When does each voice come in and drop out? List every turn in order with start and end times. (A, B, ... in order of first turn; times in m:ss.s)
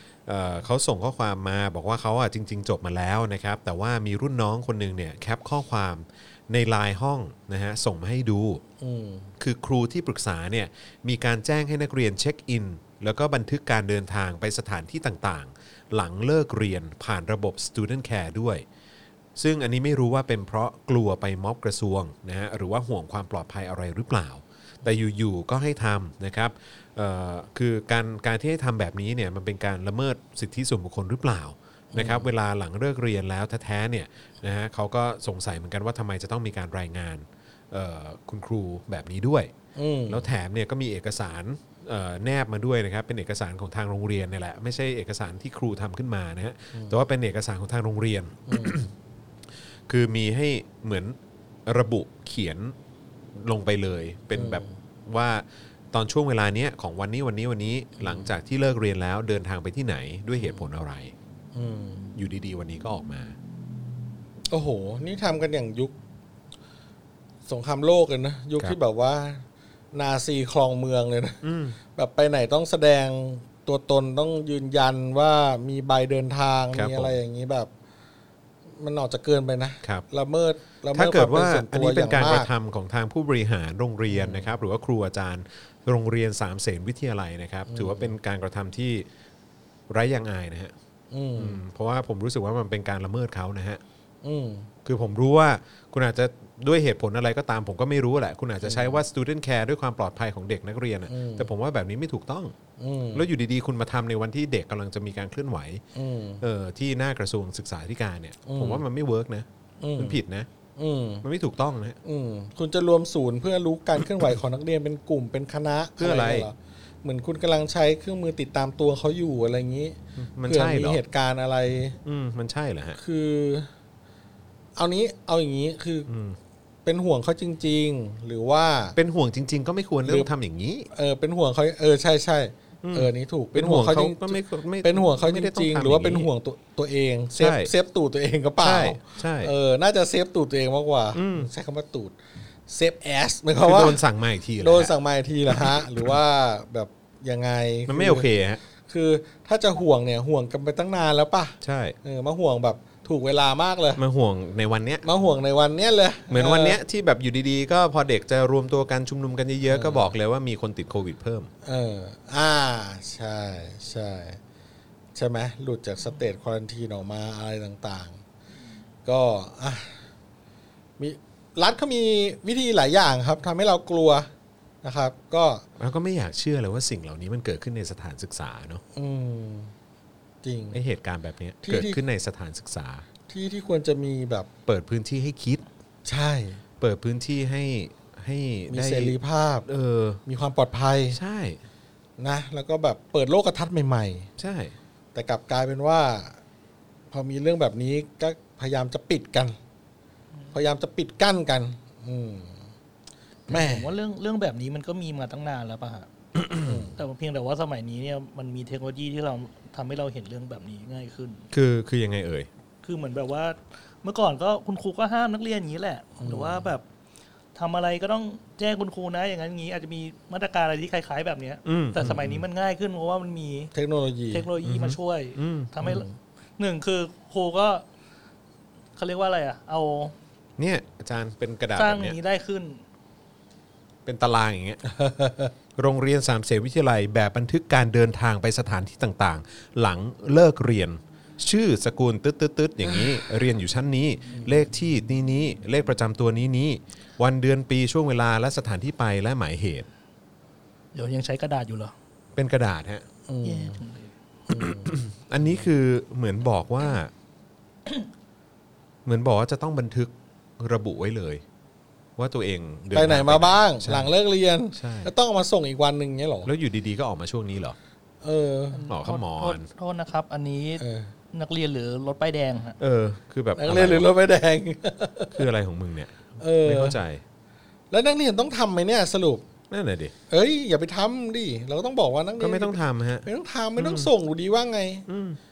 0:00.2-0:08.6 A
0:08.8-0:09.3 B
0:09.4-0:18.6 A
0:19.4-0:39.5 A
0:31.9-0:32.3 B
0:39.7-0:40.3 B
0:40.1-0:48.9 A
0:48.5-0:48.8 B
0:49.9-0:52.7 A
0:53.3-1:01.1 A
0:54.3-0:54.7 B
0:58.0-0:58.3 B
1:01.5-1:02.1 B
1:02.2-1:03.3 A
1:04.5-1:05.9 B
1:07.5-1:11.4 B
1:11.4-1:11.8 A
1:11.9-1:17.7 B
1:16.7-1:17.1 A
1:18.8-1:22.5 B
1:20.9-1:29.0 A
1:24.1-1:24.5 B
1:27.7-1:28.1 B
1:29.9-1:30.7 A
1:31.1-1:31.6 B
1:31.4-1:33.8 A
1:34.2-1:34.7 B
1:34.8-1:42.5 A
1:38.6-1:39.0 B
1:41.1-1:41.5 B
1:42.8-1:43.2 B
1:43.1-1:45.8 A
1:45.9-1:46.4 B
1:46.4-1:50.5 A
1:48.4-1:48.8 B
1:49.8-1:50.2 B
1:50.8-1:51.2 B
1:51.2-1:52.0 A
1:52.0-2:00.0 B
1:56.0-1:56.5 A
2:00.2-2:01.0 A
2:00.5-2:02.0 B
2:02.0-2:03.0 A
2:03.0-2:03.7 B
2:04.8-2:06.1 B
2:06.1-2:06.4 A
2:06.8-2:09.0 B
2:08.9-2:10.9 A
2:10.0-2:10.3 B
2:10.9-2:22.2 B
2:12.8-2:16.3 A
2:17.4-2:17.7 A
2:18.6-2:19.5 A
2:21.1-2:21.5 A
2:22.7-2:24.0 B
2:23.6-2:24.9 A
2:24.6-2:28.3 B
2:25.5-2:26.1 A
2:27.9-2:28.6 A
2:28.8-2:34.0 B
2:31.6-2:32.0 A
2:34.0-2:35.0 A
2:35.0-2:36.8 B
2:36.3-2:41.5 A
2:39.7-2:40.1 B
2:41.6-2:44.4 B
2:45.1-2:48.2 B
2:49.0-2:50.0 B
2:51.0-2:54.3 B
2:54.8-2:55.6 B
2:55.8-2:58.8 A
2:58.9-2:59.7 B
3:00.4-3:00.8 B
3:00.7-3:03.0 A
3:01.6-3:02.0 B
3:03.3-3:04.5 B
3:04.6-3:05.6 A
3:06.0-3:06.6 B
3:06.8-3:10.2 A
3:08.7-3:09.6 B
3:10.2-3:11.2 B
3:11.1-3:11.6 A
3:12.2-3:14.3 B
3:14.4-3:14.7 A
3:15.1-3:16.4 B
3:17.1-3:19.6 B
3:20.5-3:22.6 B
3:23.5-3:26.1 C
3:23.5-3:23.9 B
3:26.4-3:26.8 A
3:26.6-3:26.9 B
3:27.0-3:31.4 C
3:31.5-3:32.5 A
3:32.8-3:36.8 C
3:36.2-3:36.7 B
3:37.5-3:43.7 C
3:41.6-3:42.4 A
3:43.7-3:44.4 B
3:44.3-3:46.0 C
3:44.6-3:45.7 A
3:45.8-3:46.1 B
3:46.6-3:47.8 C
3:49.0-3:50.1 C
3:50.6-3:52.2 A
3:51.8-3:52.8 C
3:54.0-3:54.8 A
3:54.8-3:55.5 B
3:55.8-4:09.9 A
4:10.9-4:11.9 C
4:12.4-4:13.0 A
4:13.3-4:13.8 B
4:13.4-4:14.1 C
4:14.5-4:14.9 B
4:14.5-4:17.1 A
4:19.0-4:21.4 A
4:22.2-4:24.1 A
4:22.9-4:26.5 B
4:24.7-4:25.1 A
4:26.4-4:27.8 A
4:28.2-4:28.8 B
4:28.7-4:30.8 C
4:28.8-4:29.7 A
4:30.8-4:31.1 B
4:31.3-4:32.8 C
4:32.8-4:34.1 A
4:33.6-4:35.4 B
4:35.3-4:37.2 A
4:36.4-4:37.0 B
4:37.9-4:39.4 B
4:39.7-4:40.1 A
4:40.3-4:45.0 B
4:42.4-4:44.1 A
4:45.1-4:45.4 A